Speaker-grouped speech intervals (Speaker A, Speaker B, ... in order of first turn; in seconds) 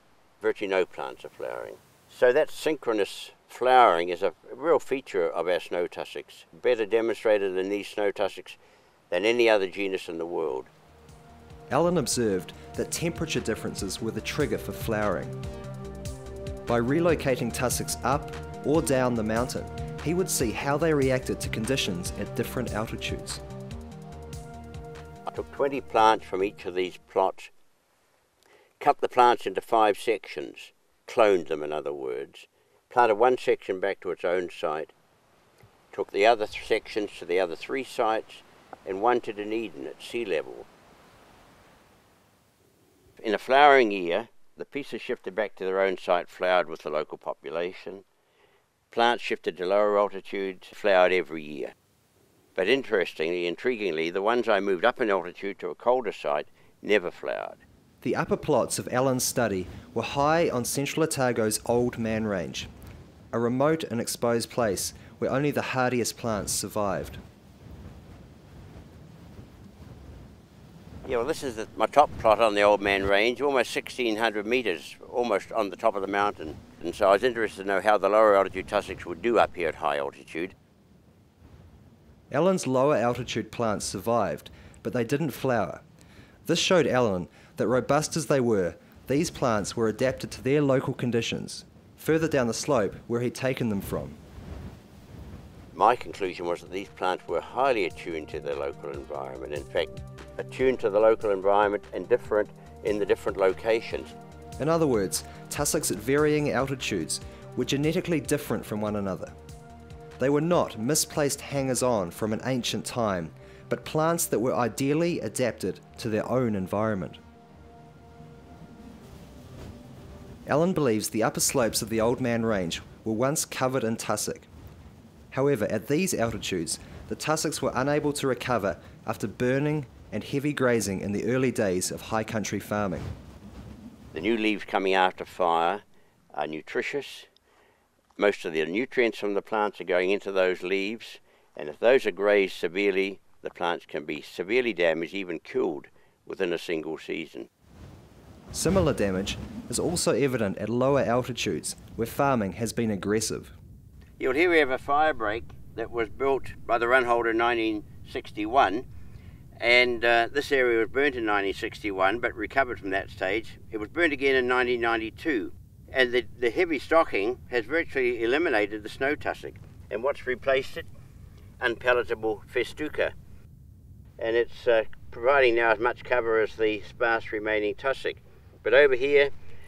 Speaker A: 0.4-8.6, 9.1-10.7, 25.3-27.5, 28.8-34.9, 35.9-40.7, 43.2-48.0, 48.9-51.7, 52.5-57.6, 71.0-80.5, 95.7-104.1, 134.1-135.8, 136.3-137.3, 138.2-147.5, 154.2-158.8, 159.6-170.9, 171.6-173.1, 174.2-179.3
Speaker B: 11.7-15.3, 16.7-23.4, 58.0-62.7, 63.3-67.2, 82.3-85.8, 86.5-94.2, 104.6-109.3, 110.2-117.2, 120.5-124.5, 125.3-133.1, 148.5-153.5